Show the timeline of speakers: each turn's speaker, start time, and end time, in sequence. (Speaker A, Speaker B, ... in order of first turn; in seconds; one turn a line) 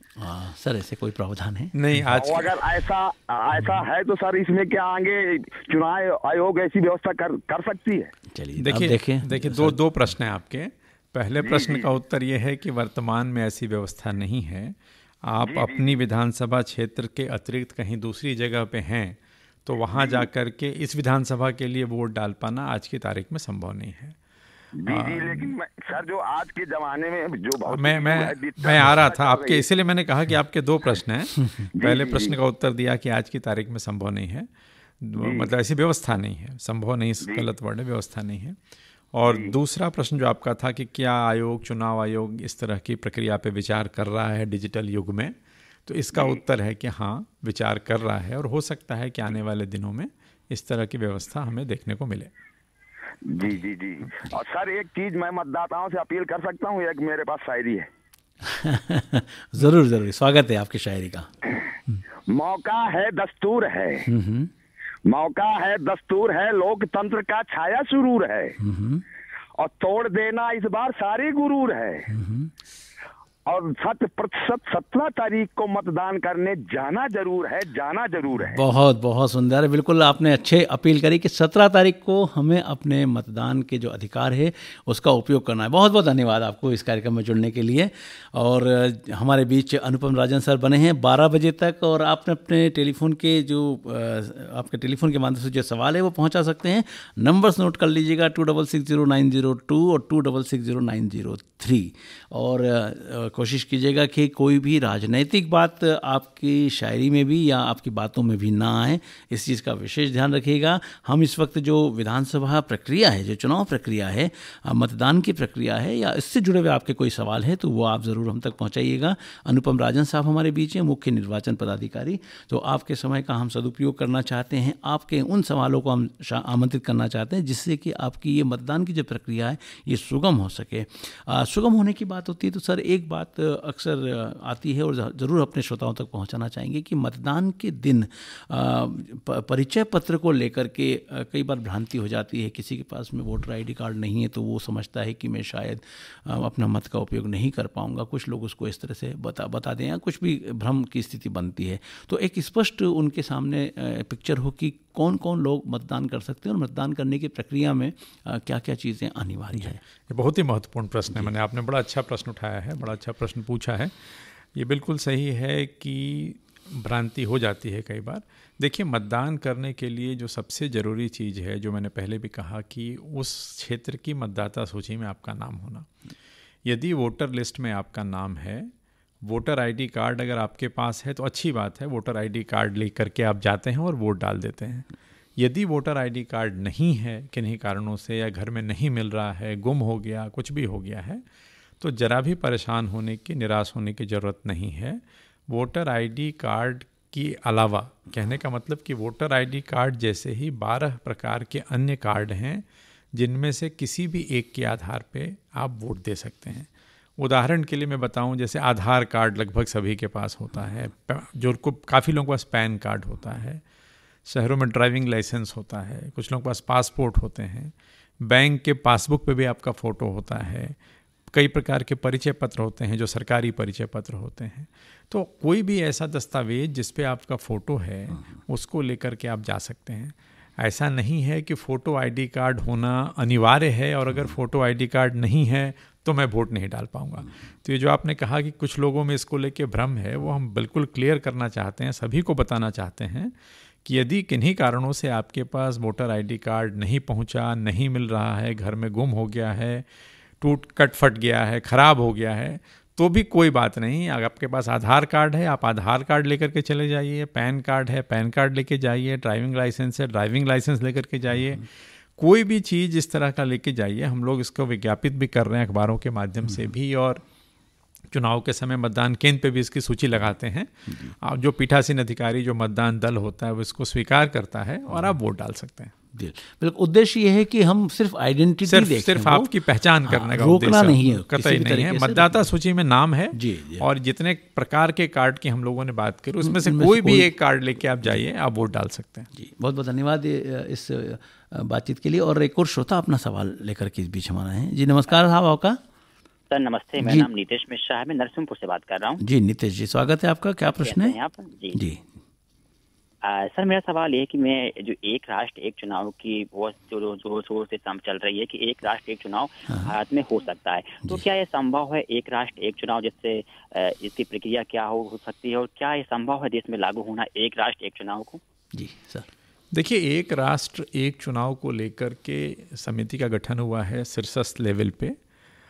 Speaker A: 0.2-2.0
Speaker B: 1.7-2.6
Speaker C: 2.1-8.1
Speaker A: 8.3-9.8
Speaker B: 8.6-24.2
Speaker C: 11.4-11.8
Speaker C: 15.4-15.9
Speaker C: 19.9-20.2
Speaker C: 24.8-29.6
Speaker B: 24.9-25.5
Speaker B: 27.7-34.5
Speaker C: 31.8-32.3
Speaker B: 35.0-38.6
Speaker C: 35.2-35.5
Speaker B: 39.1-45.3
Speaker C: 39.2-39.5
Speaker B: 45.9-52.3
Speaker C: 53.3-57.9
Speaker A: 58.4-61.3
Speaker C: 62.3-64.0
Speaker A: 64.0-64.5
Speaker C: 65.1-68.6
Speaker A: 68.6-69.0
Speaker C: 69.6-72.1
Speaker A: 72.1-72.5
Speaker C: 73.5-78.6
Speaker A: 78.3-159.8
Speaker B: 159.5-175.9
Speaker B: 176.6-191.2
Speaker B: 191.8-213.6
Speaker B: 214.2-220.8
Speaker B: 221.3-249.9
Speaker B: 250.4-267.2
Speaker A: 261.3-261.6
Speaker B: 268.1-275.9
Speaker A: 270.9-271.1
Speaker A: 276.1-279.5
Speaker B: 278.7-289.3
Speaker A: 280.1-282.5
Speaker A: 283.3-283.9
Speaker A: 286.4-287.3
Speaker A: 289.3-295.8
Speaker D: 296.5-299.2
Speaker A: 297.0-297.3
Speaker A: 299.2-301.1
Speaker D: 300.8-301.8
Speaker A: 301.7-302.0
Speaker D: 303.2-318.4
Speaker A: 318.7-319.3
Speaker B: 319.7-325.2